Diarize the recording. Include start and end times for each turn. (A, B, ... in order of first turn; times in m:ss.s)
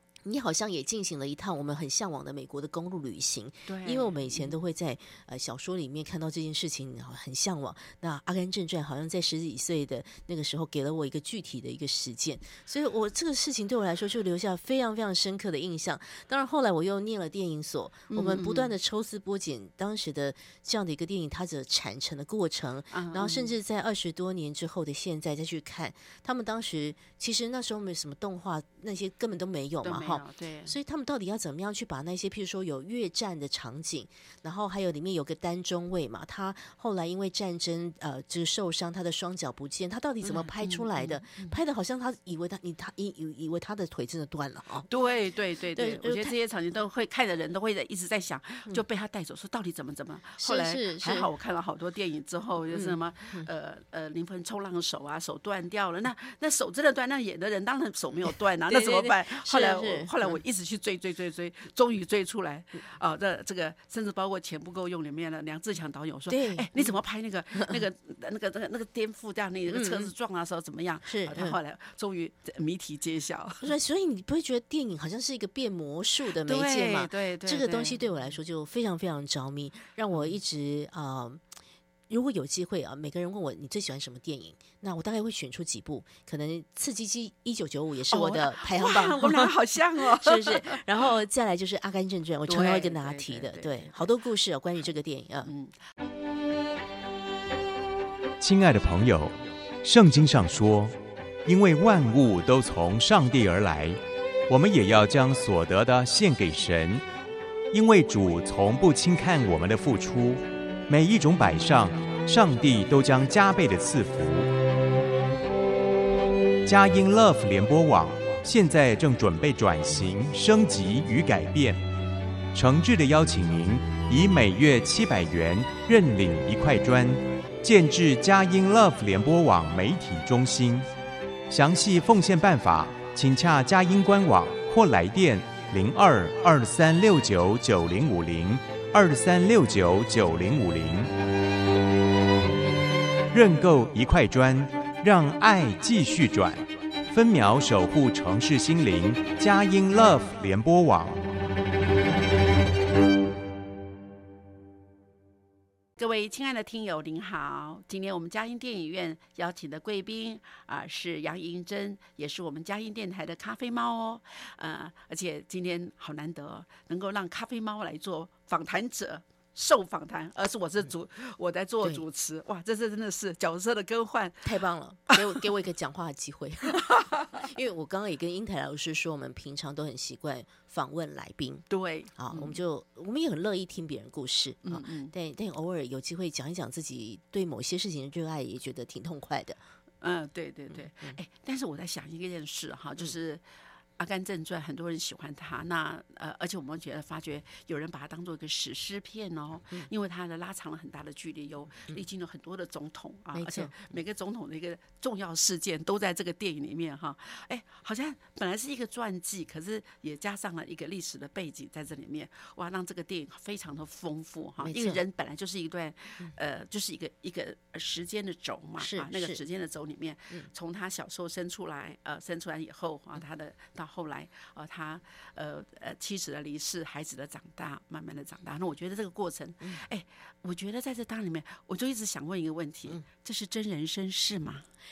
0:00.2-0:44.9 A
0:03.7-0:04.6 B
0:18.1-0:18.7 B
0:22.9-0:23.5 B
0:29.8-0:30.7 B
0:40.2-0:41.6 B
0:44.9-1:13.7 B
0:45.7-0:46.3 A
0:50.4-0:51.3 A
0:52.7-0:53.5 A
0:58.7-1:00.4 A
1:06.3-1:06.9 A
1:09.7-1:10.1 A
1:11.0-1:11.6 A
1:13.6-1:21.4 A
1:16.4-1:18.0 B
1:22.1-1:35.5 A
1:28.1-1:30.8 B
1:32.5-1:34.0 B
1:35.4-1:35.8 B
1:38.4-1:47.0 C
1:47.7-1:54.5 C
1:56.6-2:01.8 C
2:02.5-2:10.9 C
2:11.5-2:21.1 C
2:23.3-2:31.2 C
2:36.0-2:54.5 B
2:54.4-3:09.6 A
2:55.1-2:55.4 B
2:56.8-2:57.4 B
3:01.7-3:02.6 B
3:04.6-3:05.1 B
3:10.0-3:13.4 B
3:14.0-3:54.6 B
3:23.3-3:23.7 A
3:34.6-3:35.0 A
3:38.8-3:39.4 A